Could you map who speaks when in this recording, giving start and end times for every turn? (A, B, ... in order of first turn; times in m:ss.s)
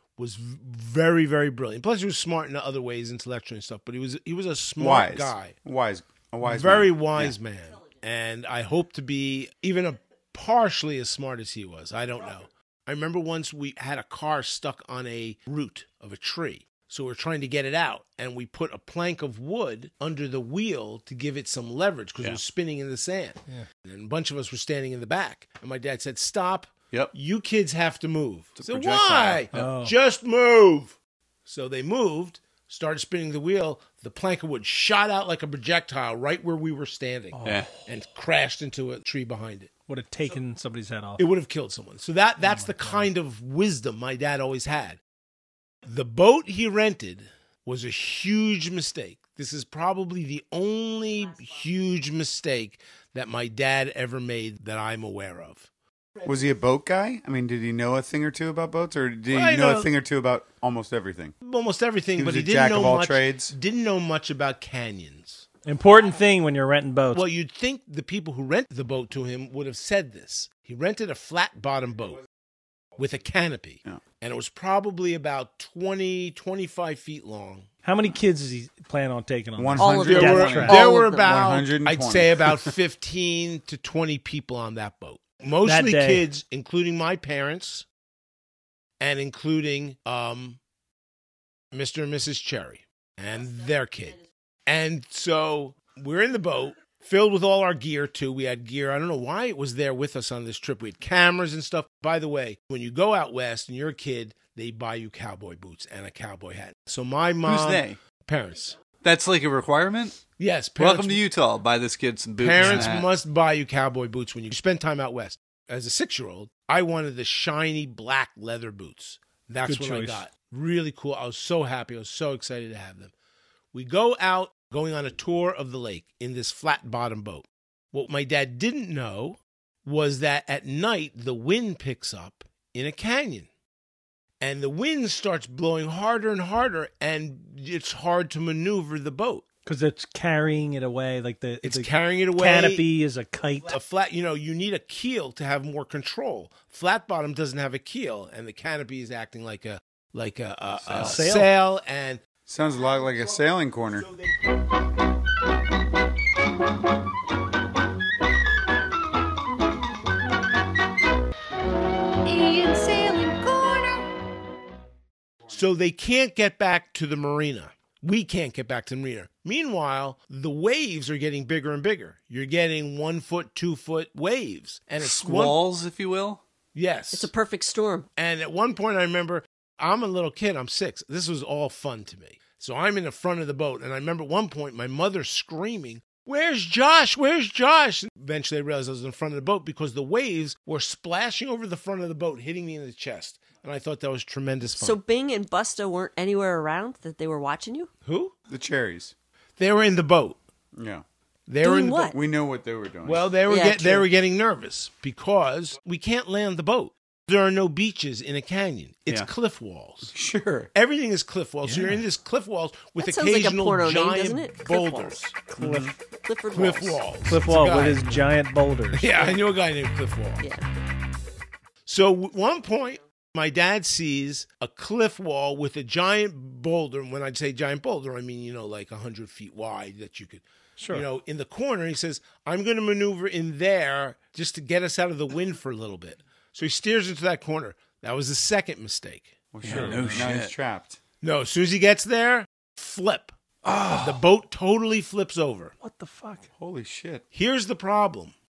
0:00.2-0:05.5 A
0:04.8-0:07.3 B
0:06.4-0:39.7 A
0:28.6-0:29.4 C
0:29.5-0:29.9 D
0:37.3-0:37.8 D
0:39.9-0:41.2 D
0:41.2-0:45.0 A
0:42.4-0:43.1 D
0:45.8-0:55.7 A
0:56.2-1:01.3 B
0:59.3-0:59.9 A
1:01.4-1:05.4 A
1:02.2-1:03.5 B
1:05.6-1:07.2 D
1:07.1-1:12.2 A
1:13.0-1:17.7 A
1:17.8-1:20.8 D
1:19.6-1:22.4 B
1:19.8-1:21.4 E
1:20.0-1:27.8 A
1:25.6-1:26.2 D
1:29.0-1:30.6 A
1:31.7-1:48.8 A
1:47.4-1:48.0 C
1:49.0-1:50.2 C
1:50.4-1:51.2 A
1:50.8-1:53.1 C
1:52.4-2:03.1 A
1:52.6-1:52.9 D
1:59.6-2:00.2 D
2:03.7-2:13.5 A
2:14.4-2:19.4 A
2:19.6-2:23.8 D
2:21.6-2:22.9 A
2:23.7-2:32.2 A
2:30.8-2:31.2 C
2:31.0-2:31.5 D
2:32.5-2:34.1 B
2:32.8-2:34.4 A
2:42.3-2:43.7 E
2:45.5-2:55.6 A
2:55.0-2:56.4 C
2:56.7-2:57.3 A
2:57.1-2:58.1 E
2:58.2-3:15.0 A
3:14.7-3:17.9 E
3:18.0-3:18.3 A
3:18.5-3:19.1 B
3:19.6-3:20.4 A
3:20.7-3:21.0 B
3:21.5-3:22.1 A
3:21.6-3:22.2 E
3:22.0-3:23.2 B
3:23.0-3:30.1 A
3:23.5-3:24.1 E
3:30.1-3:30.7 B
3:30.7-3:35.4 A
3:31.6-3:32.0 D
3:33.0-3:35.2 E
3:35.5-3:35.9 D
3:35.6-3:35.9 B
3:36.2-3:37.0 E
3:36.5-3:38.2 A
3:37.3-3:39.4 D
3:38.9-3:40.5 A
3:40.4-3:40.6 E
3:41.9-3:59.9 A
3:50.8-3:51.0 D
3:59.5-4:01.0 B
3:59.6-4:00.5 C
3:59.7-4:00.3 D
4:01.2-4:03.4 A
4:03.6-4:04.2 C
4:04.0-4:05.7 A
4:05.8-4:06.4 D
4:06.6-4:07.2 B
4:07.3-4:08.3 A